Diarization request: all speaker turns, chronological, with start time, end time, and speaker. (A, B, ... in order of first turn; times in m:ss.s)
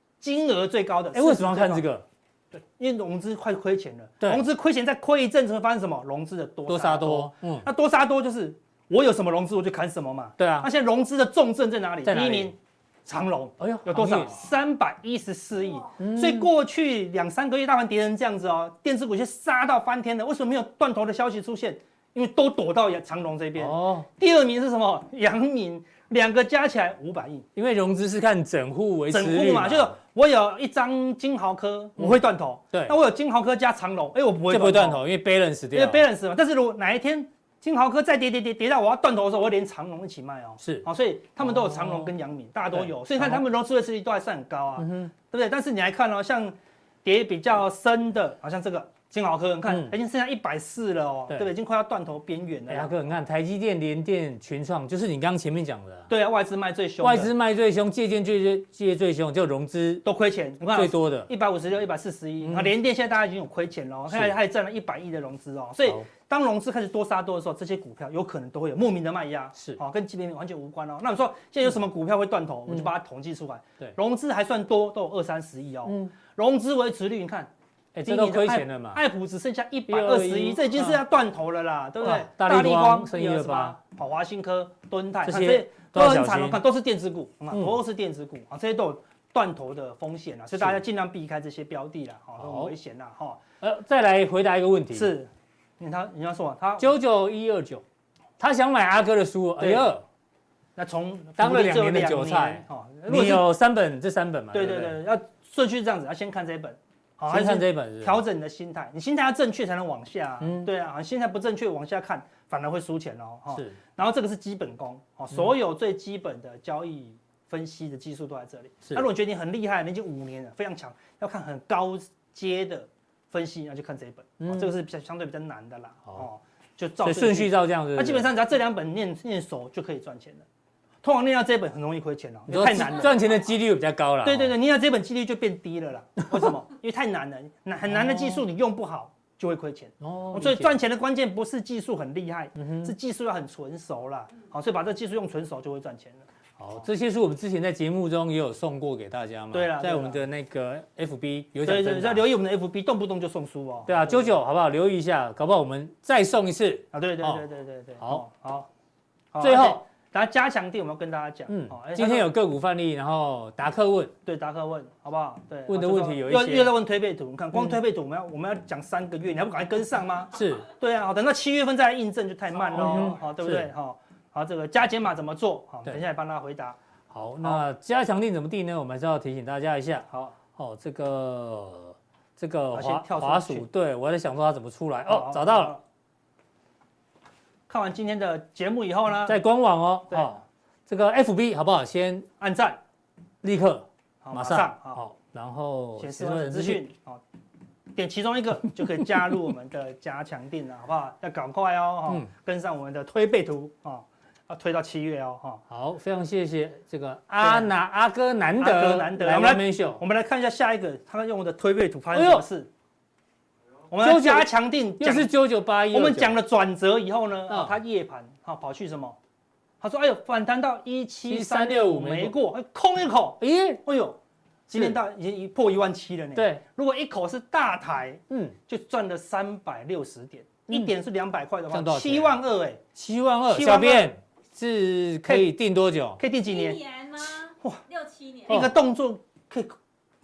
0:00.2-0:01.8 A
0:01.1-0:02.0 B
0:02.5-0:27.4 A
0:06.6-0:07.7 B
0:10.4-0:10.7 B
0:12.0-0:12.5 B
0:13.6-0:14.4 B
0:16.0-0:16.5 B
0:23.6-0:24.1 B
0:27.6-0:29.9 B
0:29.1-0:35.0 A
0:32.0-0:33.0 B
0:34.5-0:36.0 B
0:35.7-0:52.9 A
0:40.6-0:40.8 B
0:41.4-0:42.1 B
0:42.7-0:43.4 B
0:44.8-0:45.1 B
0:49.6-0:49.9 B
0:52.7-0:56.1 B
0:56.1-0:57.3 A
0:57.0-1:00.0 B
1:00.0-1:17.5 A
1:00.7-1:01.3 B
1:02.4-1:02.7 B
1:15.8-1:16.1 B
1:17.9-1:19.0 B
1:18.0-1:33.4 A
1:19.9-1:21.0 B
1:22.0-1:23.8 B
1:25.2-1:26.6 B
1:27.5-1:27.8 B
1:32.4-1:32.7 B
1:33.6-1:35.1 B
1:34.9-1:35.3 A
1:35.8-1:36.9 A
1:36.8-1:37.8 B
1:38.4-1:40.0 B
1:39.6-1:39.9 A
1:40.8-1:43.5 A
1:41.4-1:45.0 B
1:44.5-2:10.4 A
1:47.3-1:48.2 B
1:50.4-1:50.7 B
2:04.4-2:04.7 B
2:07.0-2:08.3 B
2:11.0-2:13.4 A
2:12.5-2:14.5 B
2:14.2-2:26.8 A
2:17.9-2:18.4 B
2:20.0-2:20.7 B
2:22.6-2:22.9 B
2:26.6-2:32.3 B
2:29.5-2:30.2 A
2:31.6-2:34.3 A
2:33.8-2:37.4 B
2:36.9-2:38.7 A
2:39.3-2:42.3 A
2:39.4-2:39.8 B
2:41.5-2:44.1 B
2:44.2-2:56.8 A
2:45.7-2:46.7 B
2:50.3-2:50.7 B
2:52.7-2:53.7 B
2:57.1-3:05.7 B
3:00.1-3:00.3 A
3:02.7-3:03.7 A
3:05.1-3:05.8 A
3:07.7-3:09.4 A
3:09.2-3:12.3 B
3:10.1-3:10.4 A
3:12.4-3:12.8 A
3:13.4-3:16.8 B
3:14.2-3:15.0 A
3:16.0-3:17.2 A
3:17.9-3:25.6 A
3:25.7-3:30.0 B
3:27.4-3:27.7 A
3:28.6-3:32.7 A
3:32.1-3:32.4 B
3:33.9-3:35.3 A
3:34.0-3:36.4 B
3:35.9-3:39.2 A
3:37.5-3:37.8 B
3:39.8-3:52.8 A
3:41.3-3:42.4 B
3:43.4-3:43.8 B
3:46.4-3:46.6 B
3:48.3-3:48.6 B
3:51.7-3:52.4 B
3:52.9-3:56.2 B
3:53.5-3:54.1 A
3:55.2-3:55.5 A
3:56.2-3:56.8 A
3:56.4-3:58.6 C
3:58.5-3:59.7 A
3:58.5-3:58.7 B